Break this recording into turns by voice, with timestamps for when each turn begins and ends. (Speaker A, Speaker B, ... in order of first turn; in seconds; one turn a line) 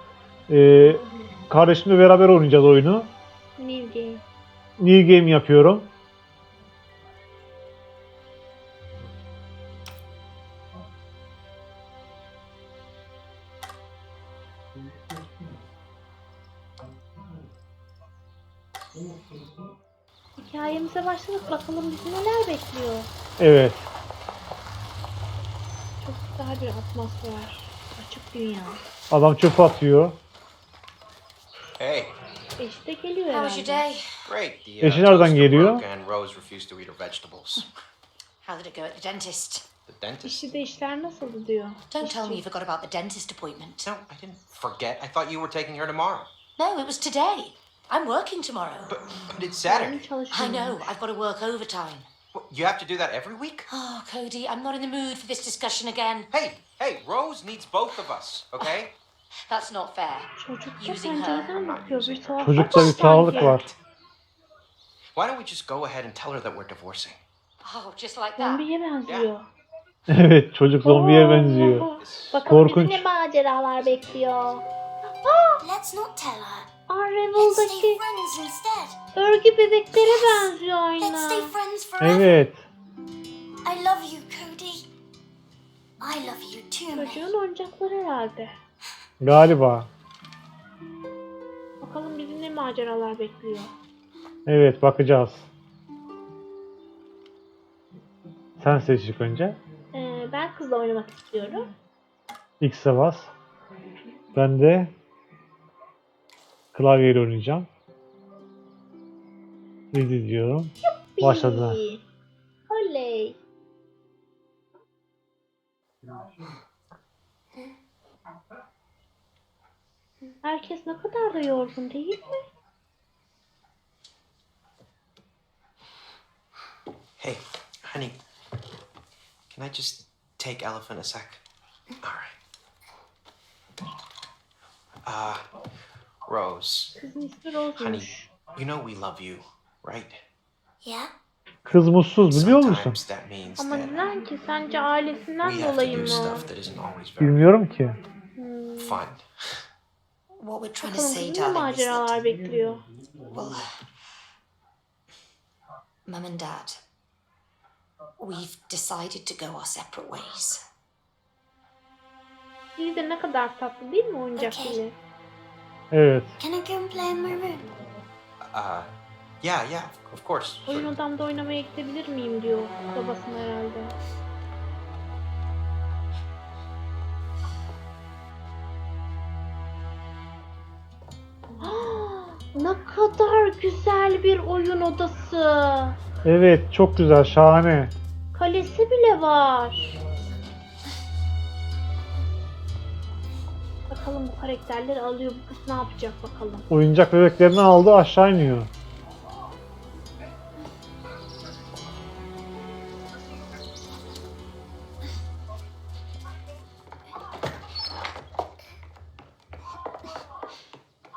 Speaker A: 0.5-3.1
Speaker B: 3.6-4.2
Speaker A: 4.8-5.8
Speaker B: 20.4-23.1
Speaker A: 23.4-23.8
Speaker B: 26.0-28.8
Speaker A: 29.1-30.1
Speaker C: 31.8-32.1
Speaker B: 32.6-33.8
Speaker D: 33.3-34.1
Speaker C: 34.2-37.6
Speaker A: 34.8-35.8
Speaker D: 38.4-39.6
Speaker C: 39.9-40.5
Speaker B: 40.2-42.4
Speaker D: 41.9-43.9
Speaker C: 43.8-46.3
Speaker D: 46.6-49.0
Speaker C: 48.9-50.1
Speaker B: 49.6-50.9
Speaker D: 50.3-52.0
Speaker C: 52.3-53.7
Speaker D: 53.7-56.3
Speaker C: 56.3-58.9
Speaker D: 59.5-61.5
Speaker B: 60.4-63.7
Speaker C: 61.5-63.7
Speaker A: 62.4-63.7
Speaker C: 65.2-67.2
Speaker D: 67.6-68.7
Speaker B: 68.4-69.5
Speaker A: 70.1-71.9
Speaker B: 70.8-75.6
Speaker C: 71.8-72.4
Speaker A: 72.5-73.0
Speaker E: 75.6-76.7
Speaker B: 76.9-78.0
Speaker E: 77.4-79.0
Speaker B: 79.2-81.5
Speaker E: 81.0-82.3
Speaker A: 82.0-82.6
Speaker E: 83.7-84.8
Speaker E: 86.2-87.2
Speaker B: 86.9-88.5
Speaker A: 89.2-89.9
Speaker B: 91.8-93.7
Speaker A: 94.5-95.5
Speaker A: 98.6-99.6
Speaker B: 99.9-101.7
Speaker A: 102.6-103.3
Speaker A: 104.3-104.9
Speaker A: 106.7-107.7
Speaker A: 109.9-111.8
Speaker B: 110.8-112.0
Speaker B: 112.7-113.4
Speaker B: 120.4-122.4
Speaker C: 127.2-128.2
Speaker C: 129.5-131.4
Speaker C: 132.0-132.3
Speaker C: 135.0-135.4
Speaker C: 136.2-136.9
Speaker B: 137.0-138.3
Speaker C: 137.8-140.2
Speaker E: 140.8-141.1
Speaker A: 141.6-143.0
Speaker C: 142.3-144.1
Speaker B: 143.6-146.4
Speaker C: 145.4-147.4
Speaker A: 147.2-148.0
Speaker B: 148.4-149.0
Speaker C: 148.8-149.2
Speaker D: 150.4-152.1
Speaker B: 150.8-152.8
Speaker D: 153.3-153.7
Speaker D: 156.1-156.8
Speaker D: 158.2-160.6
Speaker B: 162.8-164.9
Speaker E: 164.4-164.8
Speaker A: 165.9-166.3
Speaker E: 166.4-167.7
Speaker C: 168.4-168.9
Speaker C: 169.4-170.9
Speaker B: 170.7-173.9
Speaker B: 181.6-185.9
Speaker A: 186.2-187.9
Speaker B: 188.3-189.9
Speaker B: 193.9-196.6
Speaker A: 196.7-198.7